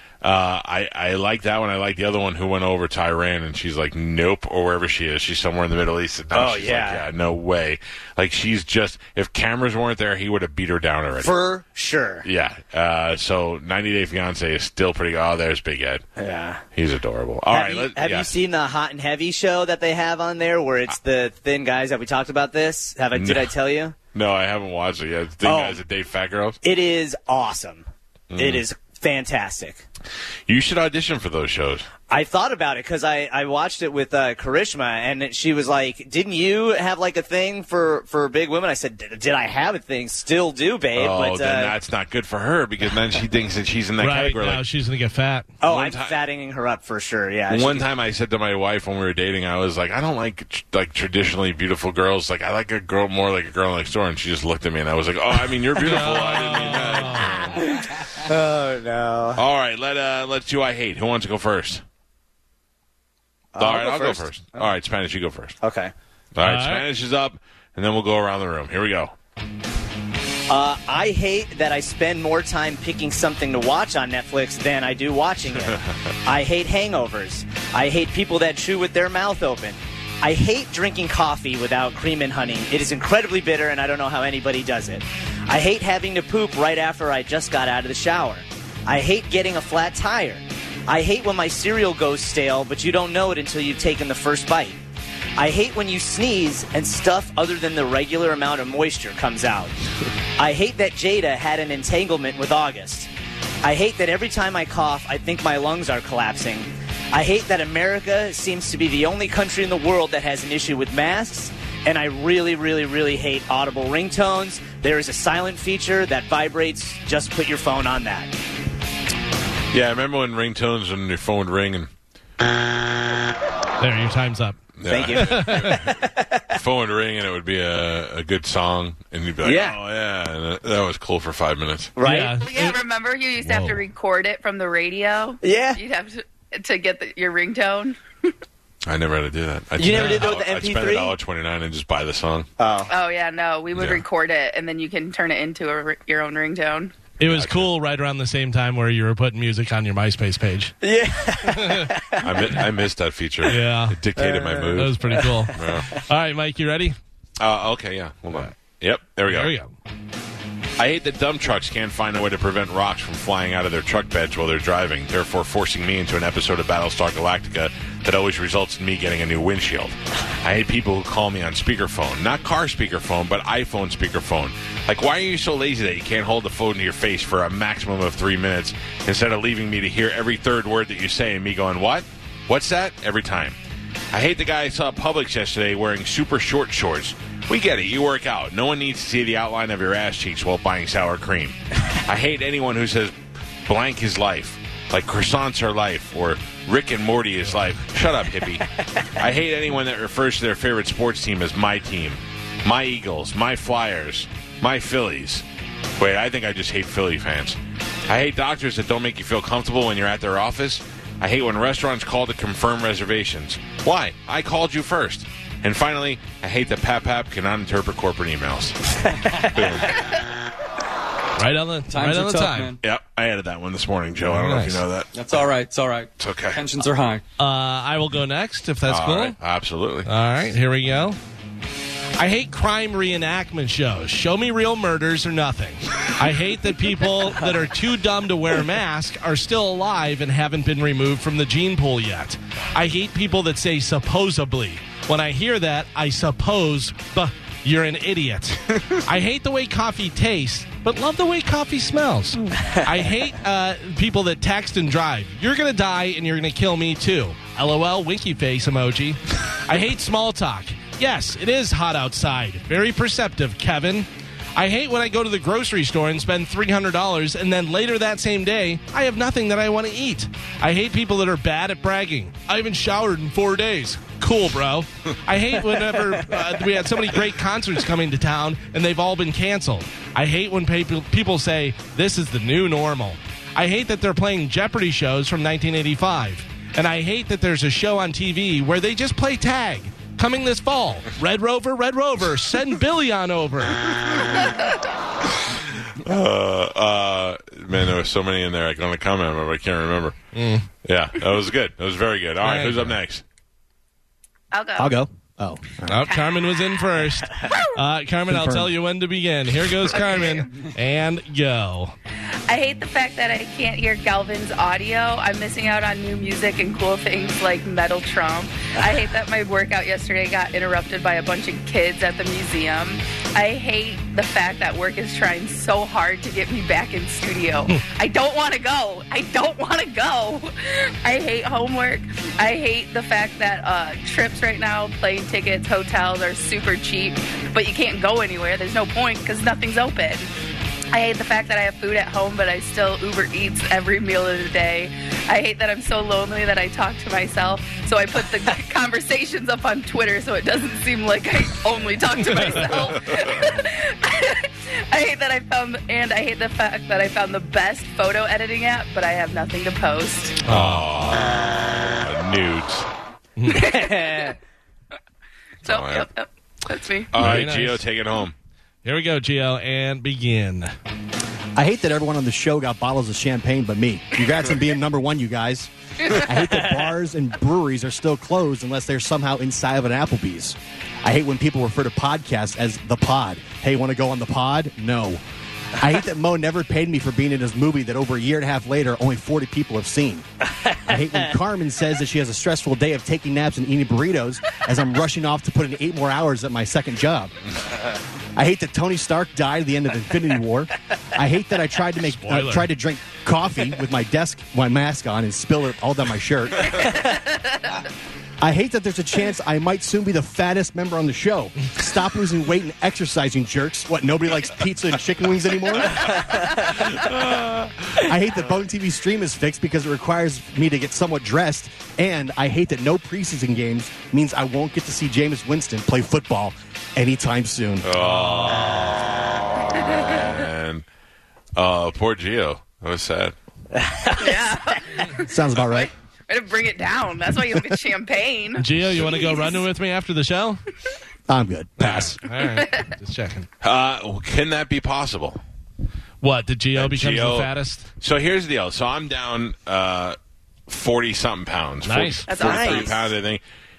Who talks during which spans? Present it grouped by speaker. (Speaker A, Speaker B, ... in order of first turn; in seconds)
Speaker A: 0.2-11.3, 12.2-16.0, 16.7-18.3, 23.1-23.6, 24.1-26.6, 28.3-28.6, 30.5-31.9, 40.9-44.6, 45.6-46.2, 47.5-57.6, 59.3-61.8, 63.6-65.5, 66.3-69.1, 119.7-121.9, 124.8-131.9, 138.8-142.5, 143.7-144.0, 147.3-147.7, 152.2-155.0, 155.5-155.9, 157.4-159.5, 160.8-183.6, 184.1-193.1, 193.7-205.4, 206.0-220.0, 222.8-225.5, 226.2-226.6, 228.9-230.1, 294.1-294.5, 296.0-300.1, 300.8-303.2, 360.5-362.9, 365.6-366.1, 367.1-368.3, 416.0-418.0, 427.8-430.8, 431.6-433.3, 438.8-439.1, 441.8-442.1, 443.6-445.4, 446.7-450.2, 450.7-453.4
Speaker B: 6.3-7.1, 11.2-12.2, 16.2-16.6, 17.5-23.9, 25.4-25.8, 26.6-27.8, 28.4-29.8, 32.1-41.7, 45.6-47.9, 57.1-59.4, 63.5-64.7, 65.6-65.9, 70.5-94.8, 95.4-99.8, 100.4-103.1, 103.6-118.3, 124.8-126.4, 129.4-129.8, 131.9-132.4, 135.4-135.8, 139.8-141.2, 142.6-142.9, 150.8-152.5, 154.2-155.8, 219.0-219.8, 363.5-364.3, 433.8-434.6, 452.4-453.1
Speaker C: 44.0-45.5, 55.8-57.5, 66.4-66.8, 123.8-124.6, 125.1-125.8, 132.0-132.8, 133.4-133.8, 139.9-140.2, 147.2-150.7, 151.6-151.9, 153.4-154.0, 154.7-156.9, 159.2-159.7, 221.3-222.7, 224.2-224.8, 227.4-229.4, 230.0-231.2, 232.2-293.8, 300.3-300.7, 302.4-303.0, 305.9-311.9, 352.3-352.7, 360.4-361.1, 363.4-363.7, 367.1-367.9, 368.8-370.7, 402.1-402.7, 428.0-428.9, 438.6-440.6, 441.8-443.5, 446.2-447.8, 451.8-452.3
Speaker D: 132.4-137.9, 142.9-146.9, 304.5-304.9, 305.9-306.7, 307.4-307.8, 309.9-310.5, 312.5-340.3, 340.9-360.4, 363.5-364.3, 365.6-367.1, 406.8-407.6, 429.7-430.2, 434.1-438.6, 439.2-439.6, 442.5-442.8, 452.3-453.0
Speaker E: 221.9-222.8, 225.1-227.2
Speaker F: 304.8-306.0, 308.3-308.7, 371.6-385.2, 385.7-390.2, 390.9-397.3, 398.3-406.8, 408.4-416.2, 418.0-427.9, 435.3-435.9, 441.3-441.8